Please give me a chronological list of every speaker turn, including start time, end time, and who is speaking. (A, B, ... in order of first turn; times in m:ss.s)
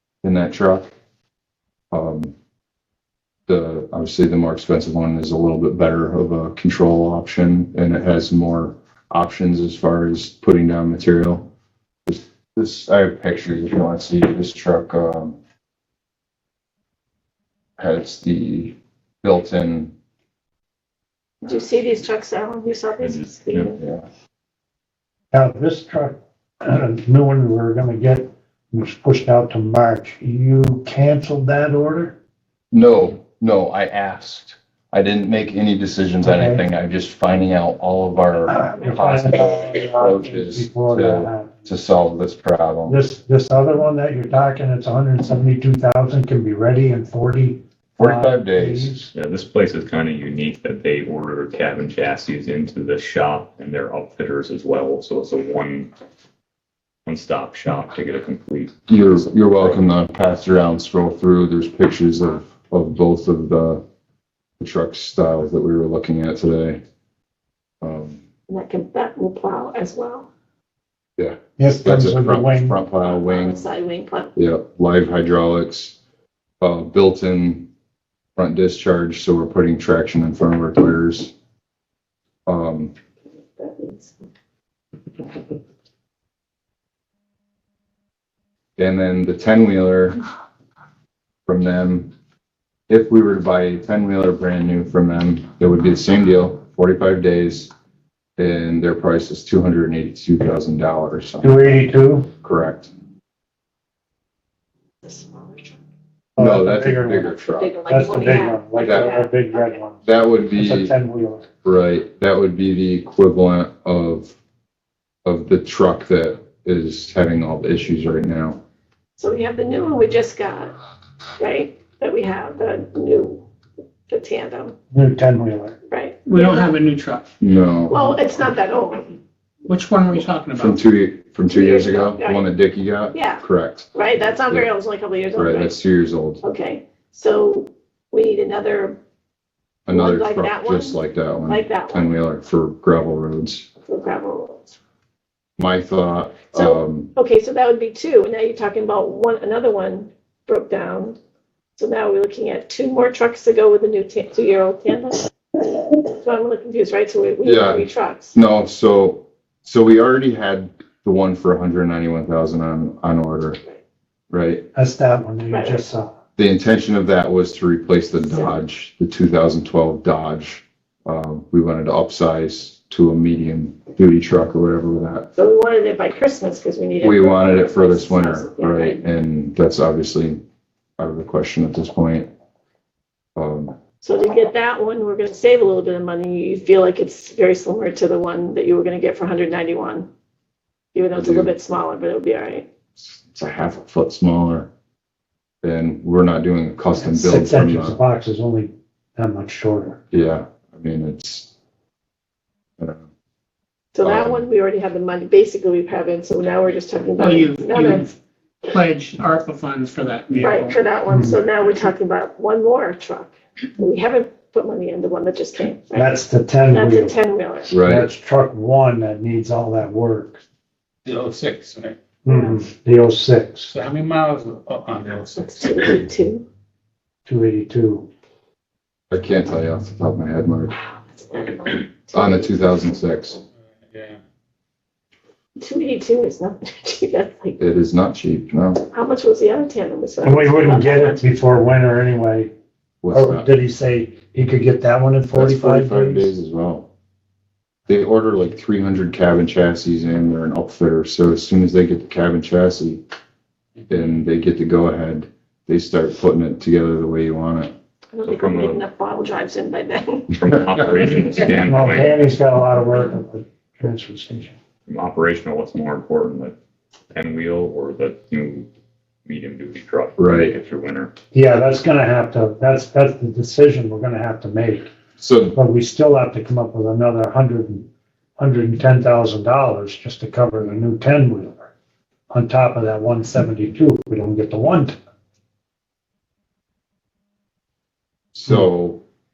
0:00.2-0:00.9 A
0:01.9-0:02.3 A
0:03.5-0:11.5 A
0:12.1-0:15.4 A
0:17.8-0:19.9 A
0:21.4-0:23.8 B
0:23.0-0:23.7 C
0:23.8-0:24.1 A
0:25.3-0:32.2 D
0:32.7-0:39.4 A
0:36.2-0:36.6 D
0:38.5-0:41.6 D
0:40.0-0:43.0 A
0:42.9-0:49.1 D
0:48.0-0:48.9 A
0:49.1-0:55.9 C
0:57.1-0:59.0 C
0:58.9-1:03.8 A
1:04.6-1:06.8 A
1:07.8-1:08.2 A
1:08.5-1:10.3 B
1:11.2-1:13.6 A
1:11.6-1:12.8 D
1:13.1-1:14.3 B
1:14.4-1:16.0 A
1:16.6-1:17.7 A
1:18.4-1:21.3 A
1:22.5-1:22.9 A
1:23.6-1:24.1 B
1:28.8-1:30.2 A
1:31.5-1:32.1 A
1:32.9-1:37.7 A
1:38.4-1:41.8 A
1:41.4-1:42.3 D
1:42.4-1:42.9 A
1:45.0-1:45.8 B
1:46.4-1:47.3 D
1:46.4-1:47.7 A
1:47.3-1:49.8 B
1:47.9-1:50.0 D
1:48.8-1:49.1 A
1:50.0-1:50.9 A
1:50.6-1:51.5 D
1:51.6-1:54.3 A
1:55.2-1:58.6 A
1:59.2-2:00.8 B
2:01.4-2:03.4 B
2:04.1-2:04.8 B
2:04.9-2:05.8 D
2:05.9-2:06.7 B
2:06.3-2:07.3 E
2:07.4-2:08.0 A
2:07.9-2:09.2 B
2:09.7-2:10.8 E
2:10.6-2:13.9 A
2:11.5-2:12.5 B
2:13.1-2:13.4 B
2:13.9-2:15.7 B
2:15.3-2:16.4 A
2:16.4-2:19.0 B
2:19.9-2:23.7 A
2:19.9-2:22.1 B
2:23.9-2:24.7 B
2:25.6-2:27.1 A
2:26.5-2:31.2 B
2:31.8-2:35.3 B
2:35.8-2:38.4 B
2:37.4-2:43.6 A
2:44.3-2:44.7 A
2:44.7-2:46.2 D
2:45.5-2:45.8 B
2:46.4-2:55.3 A
2:55.4-2:59.0 B
2:57.0-3:00.4 A
3:01.0-3:02.3 A
3:03.4-3:03.8 A
3:04.0-3:10.1 B
3:11.0-3:12.7 B
3:11.1-3:11.5 A
3:13.0-3:14.7 A
3:15.6-3:18.0 A
3:17.0-3:20.0 D
3:20.1-3:21.5 A
3:22.8-3:23.1 A
3:24.0-3:28.0 B
3:24.0-3:24.4 A
3:27.2-3:28.1 E
3:28.7-3:30.8 E
3:30.4-3:36.1 B
3:31.1-3:31.4 D
3:35.9-3:37.2 D
3:36.7-3:37.8 B
3:37.7-3:38.1 A
3:37.8-3:40.4 D
3:41.1-3:42.0 F
3:42.2-3:43.7 D
3:42.3-3:42.6 B
3:43.7-3:45.7 F
3:45.4-3:46.5 B
3:47.3-3:48.1 D
3:49.1-3:50.8 A
3:51.0-3:52.5 B
3:52.1-3:53.4 A
3:53.8-3:54.2 F
3:55.6-3:57.6 B
3:57.6-3:58.8 A
3:58.9-4:01.2 B
4:00.2-4:02.5 D
4:03.0-4:03.5 A
4:03.1-4:06.4 D
4:05.3-4:06.9 A
4:07.9-4:13.0 A
4:13.9-4:17.7 A
4:18.1-4:20.3 B
4:18.2-4:18.9 C
4:20.3-4:22.2 C
4:21.5-4:24.6 D
4:24.9-4:26.6 C
4:27.1-4:28.7 C
4:29.2-4:31.1 C
4:30.2-4:30.5 A
4:31.3-4:34.9 D
4:35.2-4:35.6 A
4:35.5-4:41.7 D
4:42.3-4:45.0 D
4:48.3-4:49.0 A